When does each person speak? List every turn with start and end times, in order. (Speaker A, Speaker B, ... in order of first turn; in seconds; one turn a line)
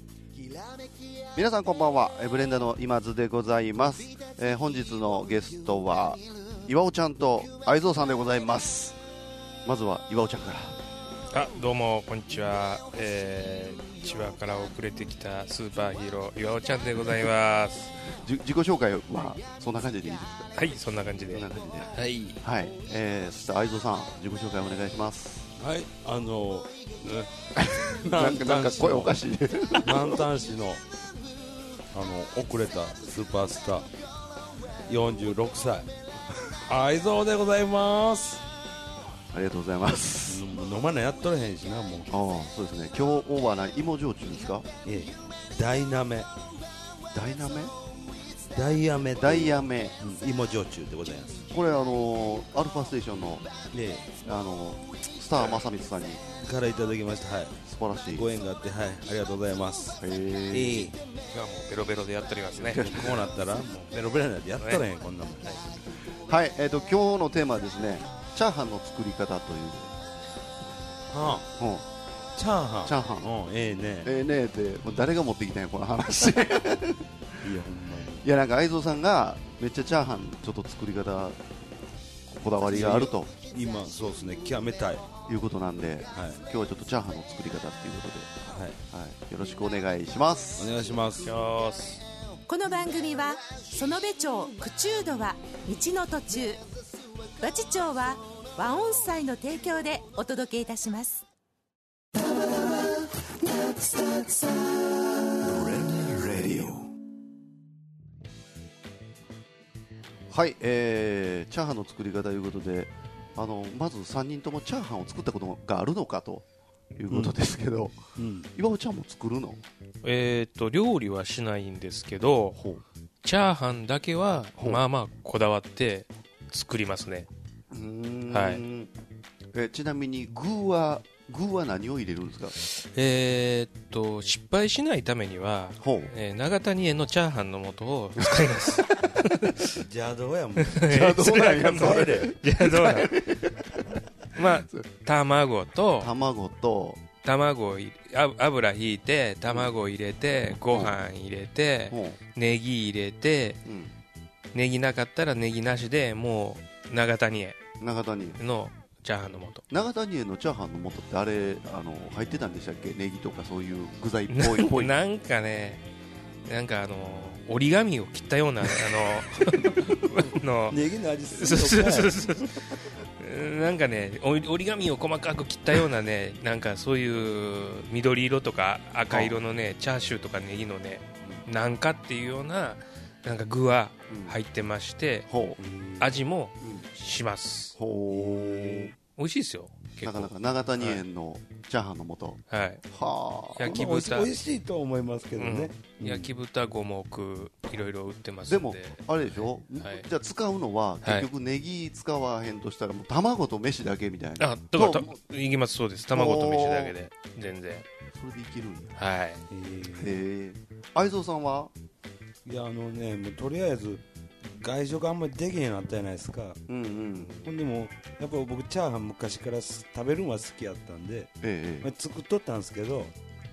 Speaker A: 0.3-1.1
Speaker B: 1.4-9.0
Speaker B: 9.6-10.8
Speaker C: 11.3-17.9
Speaker B: 18.2-20.5
Speaker C: 20.5-22.4
Speaker B: 21.3-25.5
Speaker D: 25.6-27.3
Speaker B: 27.5-30.2
Speaker D: 27.9-29.2
Speaker D: 29.8-30.8
Speaker D: 31.9-33.9
Speaker D: 34.9-35.9
Speaker D: 36.7-38.4
Speaker B: 39.3-40.5
Speaker D: 40.3-42.1
Speaker B: 42.1-44.7
Speaker D: 44.8-46.3
Speaker B: 47.1-47.7
Speaker D: 48.5-51.4
Speaker B: 49.2-50.0
Speaker B: 51.5-53.5
Speaker D: 53.7-54.1
Speaker B: 54.2-56.2
Speaker D: 56.4-57.6
Speaker B: 57.6-58.3
Speaker D: 58.1-60.0
Speaker B: 60.0-60.9
Speaker D: 60.5-61.0
Speaker C: 61.3-62.9
Speaker B: 62.6-63.2
Speaker D: 62.7-65.7
Speaker C: 64.6-64.8
Speaker B: 66.2-69.9
Speaker D: 71.1-71.5
Speaker B: 71.5-71.8
Speaker D: 72.3-74.1
Speaker B: 72.8-73.2
Speaker B: 74.0-77.1
Speaker D: 77.4-78.2
Speaker B: 78.2-81.4
Speaker B: 82.3-83.3
Speaker D: 82.6-85.0
Speaker B: 85.3-88.3
Speaker D: 86.1-86.4
Speaker D: 88.5-88.8
Speaker B: 88.9-90.7
Speaker D: 90.6-91.3
Speaker C: 91.2-92.0
Speaker E: 92.5-96.6
Speaker E: 97.4-101.2
Speaker A: 103.6-104.8
Speaker B: 105.4-106.9
Speaker B: 110.3-116.4
Speaker B: 117.0-119.6
Speaker D: 117.1-117.4
Speaker D: 118.2-118.5
Speaker C: 120.0-122.6
Speaker B: 122.6-122.8
Speaker C: 123.2-127.3
Speaker B: 127.7-128.9
Speaker C: 128.3-128.6
Speaker B: 129.5-132.6
Speaker C: 132.6-139.7
Speaker B: 135.8-136.1
Speaker B: 138.2-138.8
Speaker D: 139.7-142.3
Speaker C: 140.6-143.2
Speaker B: 140.9-143.7
Speaker C: 144.3-146.1
Speaker B: 144.4-144.8
Speaker B: 146.0-147.0
Speaker C: 147.2-153.6
Speaker B: 151.9-152.2
Speaker B: 153.7-153.9
Speaker C: 154.5-157.6
Speaker B: 157.8-158.4
Speaker C: 158.4-159.6
Speaker B: 159.7-164.9
Speaker C: 164.3-165.8
Speaker C: 166.4-170.8
Speaker D: 170.7-172.4
Speaker C: 171.3-185.3
Speaker B: 179.1-179.4
Speaker B: 184.1-184.4
Speaker B: 185.3-185.6
Speaker D: 185.6-186.1
Speaker C: 186.0-187.7
Speaker B: 187.8-188.9
Speaker D: 188.1-188.9
Speaker C: 189.2-191.0
Speaker B: 190.0-193.8
Speaker C: 192.5-192.8
Speaker C: 193.5-194.3
Speaker D: 193.6-196.3
Speaker C: 195.3-200.1
Speaker B: 198.5-205.1
Speaker C: 201.0-201.3
Speaker C: 204.4-207.8
Speaker B: 206.1-206.9
Speaker B: 208.1-208.9
Speaker C: 208.9-209.4
Speaker D: 209.5-210.2
Speaker B: 209.9-211.7
Speaker D: 212.4-216.6
Speaker B: 216.7-217.3
Speaker D: 217.4-223.1
Speaker B: 221.4-221.9